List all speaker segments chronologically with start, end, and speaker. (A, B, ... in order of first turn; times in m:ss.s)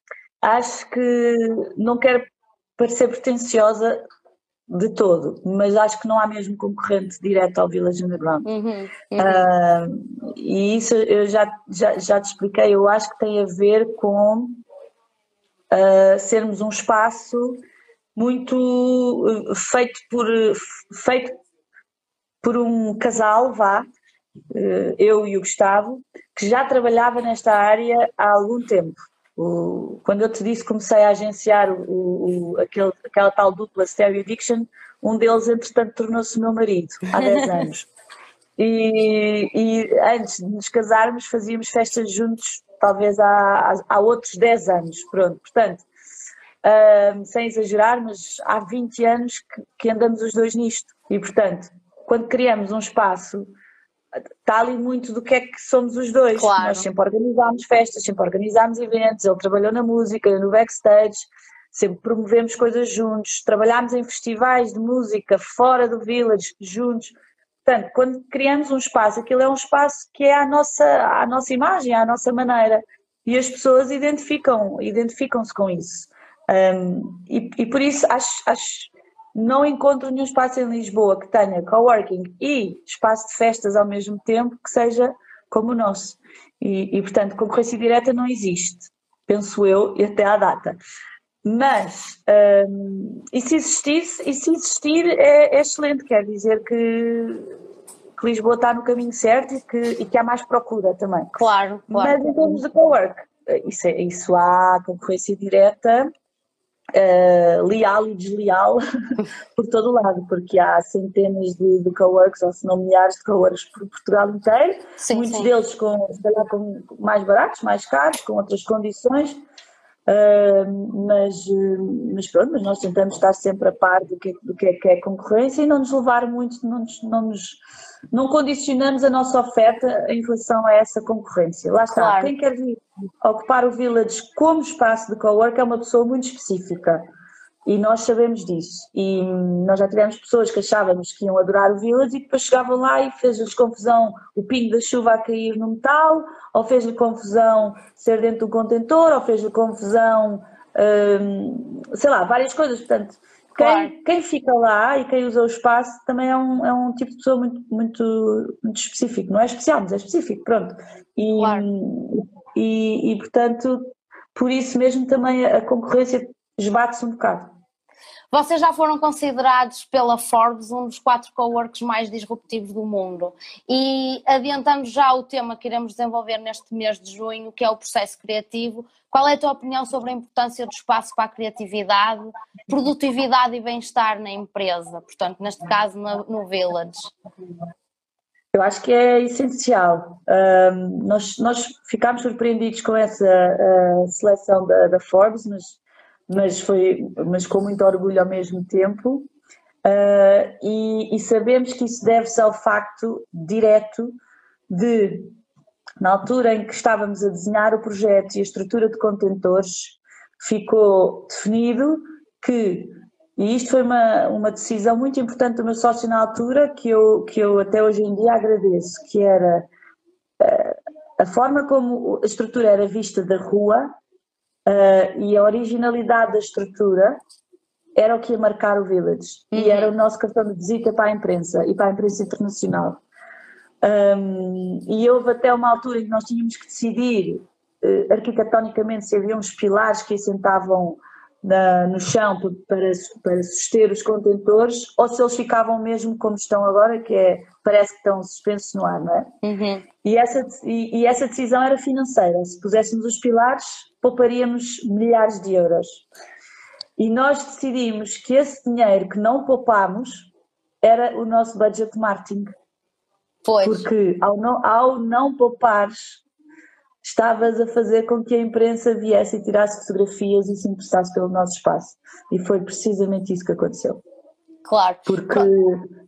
0:00.4-0:04.0 A
0:04.7-0:08.4 A
0:08.4-0:09.4 B
0:09.2-0:14.6 A
0:15.7-0:17.6 A
0:18.2-0:21.4 A
0:22.4-0:23.8 A
0:24.5-0:37.9 A
0:38.6-0:45.8 A
0:46.6-0:53.5 A
0:54.4-1:30.8 A
0:56.4-0:56.9 B
1:31.4-1:37.5 A
1:38.2-1:41.4 A
1:41.4-1:42.3 B
1:41.9-1:46.1 A
1:46.9-1:48.8 A
1:49.6-1:59.4 A
1:55.0-1:55.5 B
2:00.1-2:07.6 A
2:08.1-2:17.0 A
2:11.9-2:12.3 B
2:17.6-2:47.5 A
2:33.5-2:33.9 B
2:41.4-2:41.7 B
2:48.3-3:07.1 B
3:08.5-3:15.8 A
3:16.3-3:19.3 A
3:19.8-3:24.1 A
3:24.7-3:25.4 A
3:26.0-3:39.7 A
3:40.4-3:43.9 A
3:44.6-3:47.2 A
3:48.0-3:53.0 A
3:49.5-3:49.9 B
3:53.8-4:09.3 A
4:09.4-4:09.8 B
4:10.0-4:16.0 A
4:17.0-4:20.3 A
4:20.8-4:22.5 A
4:23.4-4:23.9 B
4:23.6-4:26.2 A
4:27.0-4:34.0 A
4:34.6-4:35.5 B
4:35.0-4:35.9 A